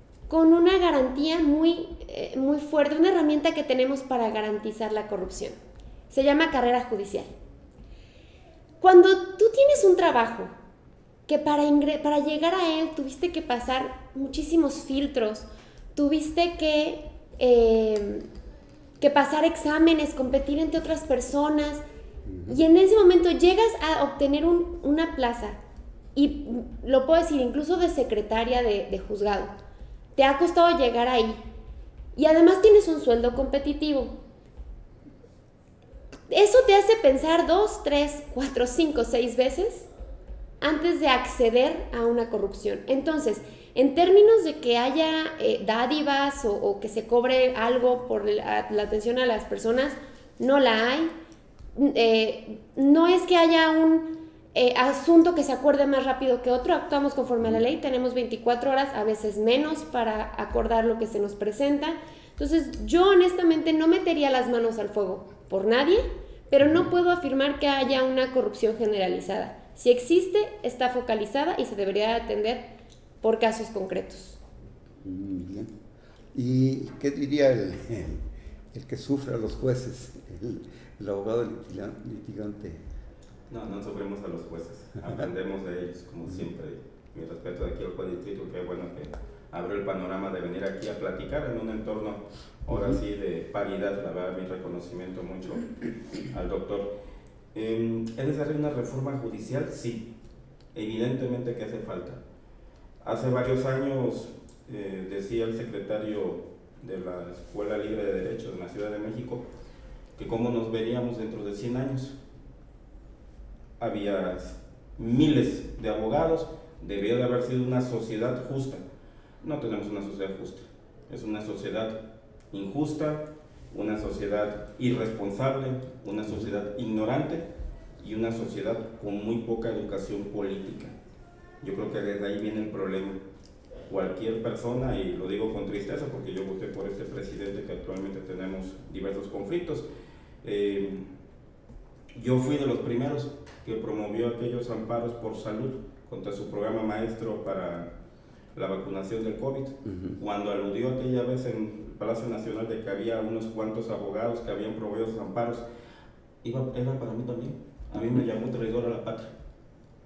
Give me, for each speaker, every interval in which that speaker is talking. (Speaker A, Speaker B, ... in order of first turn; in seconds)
Speaker A: 0.3-5.6, 6.1-7.3, 8.8-10.5, 11.3-18.2, 19.0-21.8, 22.5-25.6, 26.1-29.5, 30.2-31.4, 32.1-34.1, 36.3-39.9, 40.6-51.1, 51.8-72.6, 73.2-74.4
Speaker B: 22.3-22.6, 75.0-75.7, 76.3-82.8, 149.9-150.2
Speaker C: 83.5-97.0, 97.5-100.1, 100.7-102.2, 103.0-109.5, 110.2-112.2, 113.8-118.8, 119.4-122.0, 122.5-127.5, 128.0-130.9, 131.6-133.2, 133.9-139.8, 140.4-141.1, 142.1-147.9, 148.6-155.7, 156.4-159.3